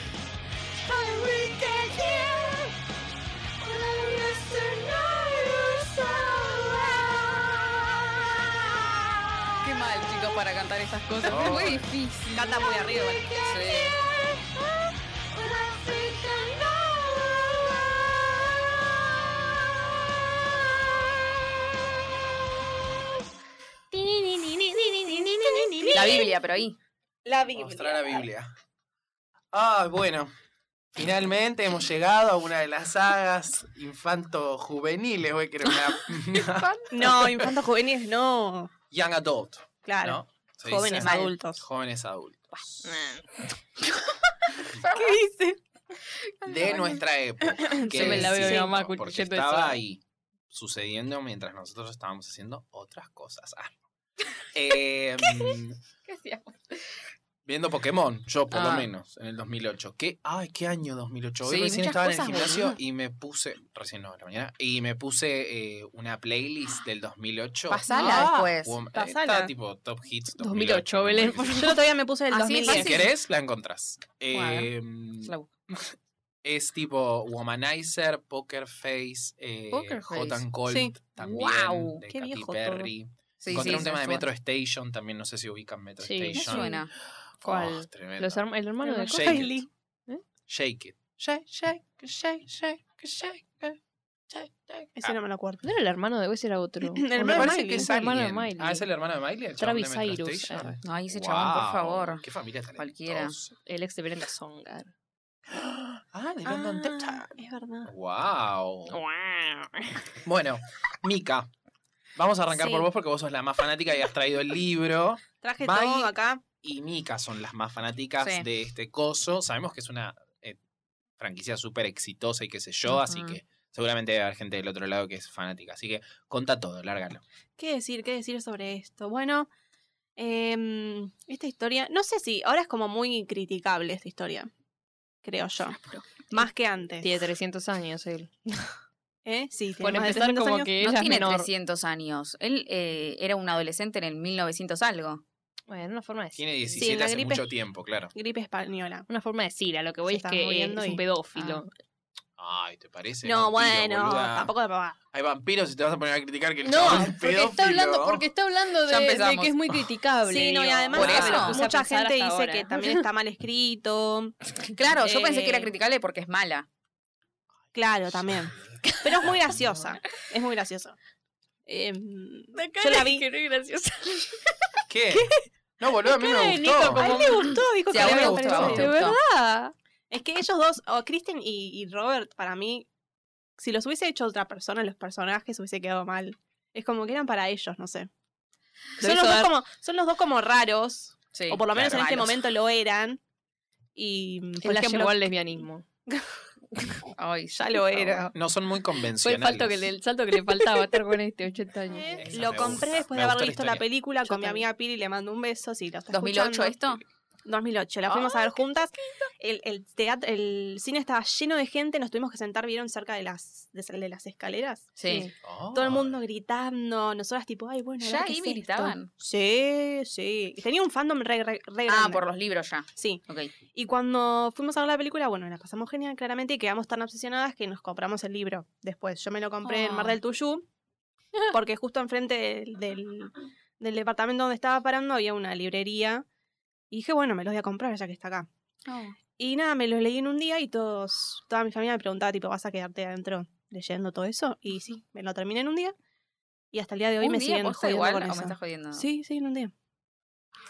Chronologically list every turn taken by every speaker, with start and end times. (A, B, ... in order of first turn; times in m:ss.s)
0:00.9-0:02.7 A
0:03.6-0:08.1 A
0:09.6-0:12.6 B
0:11.3-0:11.9 C
0:11.4-0:11.7 A
0:12.3-0:14.6 A
0:13.4-0:14.0 B
0:15.4-0:17.6 A
0:23.9-0:26.3 D
0:25.0-0:26.3 A
0:25.9-0:26.8 B
0:27.2-0:28.3 A
0:27.5-0:28.5 C
0:29.5-0:30.3 C
0:30.9-0:37.5 C
0:35.7-0:36.8 B
0:36.9-0:38.7 A
0:38.9-0:43.0 C
0:39.8-0:41.6 A
0:41.0-0:41.3 B
0:42.8-0:43.5 D
0:44.7-0:45.2 B
0:44.9-0:45.6 A
0:46.2-0:47.0 B
0:46.4-0:53.8 C
0:47.6-0:48.7 A
0:47.9-0:49.8 D
0:54.5-0:55.8 C
0:55.2-0:57.0 B
0:57.4-1:11.6 C
0:58.5-0:58.9 B
1:01.4-1:02.8 B
1:07.7-1:08.8 B
1:07.9-1:09.5 A
1:10.4-1:11.8 D
1:11.6-1:13.1 A
1:12.3-1:13.1 B
1:12.6-1:28.4 C
1:14.3-1:14.7 B
1:19.7-1:20.4 B
1:20.7-1:21.0 A
1:21.2-1:22.0 B
1:22.1-1:22.9 A
1:23.4-1:24.2 B
1:26.0-1:26.8 D
1:26.4-1:26.9 B
1:27.4-1:29.5 D
1:28.8-1:29.7 A
1:29.1-1:29.6 C
1:30.5-1:33.8 C
1:34.3-1:35.2 C
1:35.0-1:35.6 A
1:35.6-1:38.8 D
1:36.8-1:37.9 A
1:37.2-1:43.6 C
1:39.6-1:40.8 D
1:40.8-1:42.2 B
1:42.8-1:43.4 B
1:43.7-1:44.9 D
1:45.5-1:49.0 C
1:46.4-1:47.9 A
1:48.9-1:50.0 D
1:50.2-1:51.5 C
1:52.2-2:00.6 C
1:52.5-1:52.9 A
1:55.4-1:56.4 A
2:01.2-2:07.2 C
2:02.9-2:03.4 B
2:07.6-2:09.5 A
2:10.2-2:14.5 A
2:15.2-2:15.8 A
2:15.8-2:16.3 B
2:16.3-2:17.1 A
2:17.0-2:18.7 D
2:19.2-2:20.7 A
2:19.8-2:21.5 D
2:20.8-2:25.2 B
2:25.7-2:26.4 D
2:26.4-2:28.1 C
2:26.8-2:27.5 A
2:28.1-2:29.1 A
2:29.1-2:31.7 D
2:30.1-2:31.0 A
2:32.4-2:34.5 C
2:33.2-2:35.0 A
2:35.1-2:38.3 C
2:36.6-2:43.0 D
2:36.8-2:37.1 A
2:38.9-2:39.6 B
2:40.2-2:44.3 A
2:40.9-2:41.6 B
2:41.0-2:41.4 C
2:44.7-2:46.7 B
2:44.9-2:45.7 A
2:47.7-2:51.0 A
2:48.1-2:49.8 C
2:48.9-2:49.2 D
2:51.7-2:53.2 A
2:52.6-2:54.5 D
2:54.9-2:57.1 C
2:56.1-2:59.7 D
2:56.5-2:59.0 A
2:57.9-2:59.2 B
2:57.9-2:58.9 C
3:00.1-3:02.9 A
3:03.6-3:08.1 A
3:09.0-3:13.2 A
3:09.0-3:09.5 D
3:11.3-3:12.4 B
3:11.7-3:12.1 C
3:14.0-3:15.2 A
3:14.6-3:15.8 D
3:17.2-3:18.3 B
3:17.5-3:18.3 A
3:18.3-3:19.8 C
3:19.2-3:22.3 D
3:21.9-3:42.2 A
3:22.2-3:23.8 C
3:24.3-3:24.6 D
3:26.1-3:27.0 B
3:28.0-3:28.7 B
3:35.0-3:35.3 B
3:35.1-3:35.3 D
3:35.4-3:36.2 C
3:38.0-3:39.1 B
3:41.9-3:43.5 B
3:43.0-3:43.2 A
3:43.7-3:50.6 A
3:49.6-3:50.2 D
3:51.5-3:56.2 A
3:56.9-3:58.5 A
3:58.9-3:59.2 B
3:59.4-4:06.0 A
4:06.7-4:09.7 A
4:07.2-4:09.1 B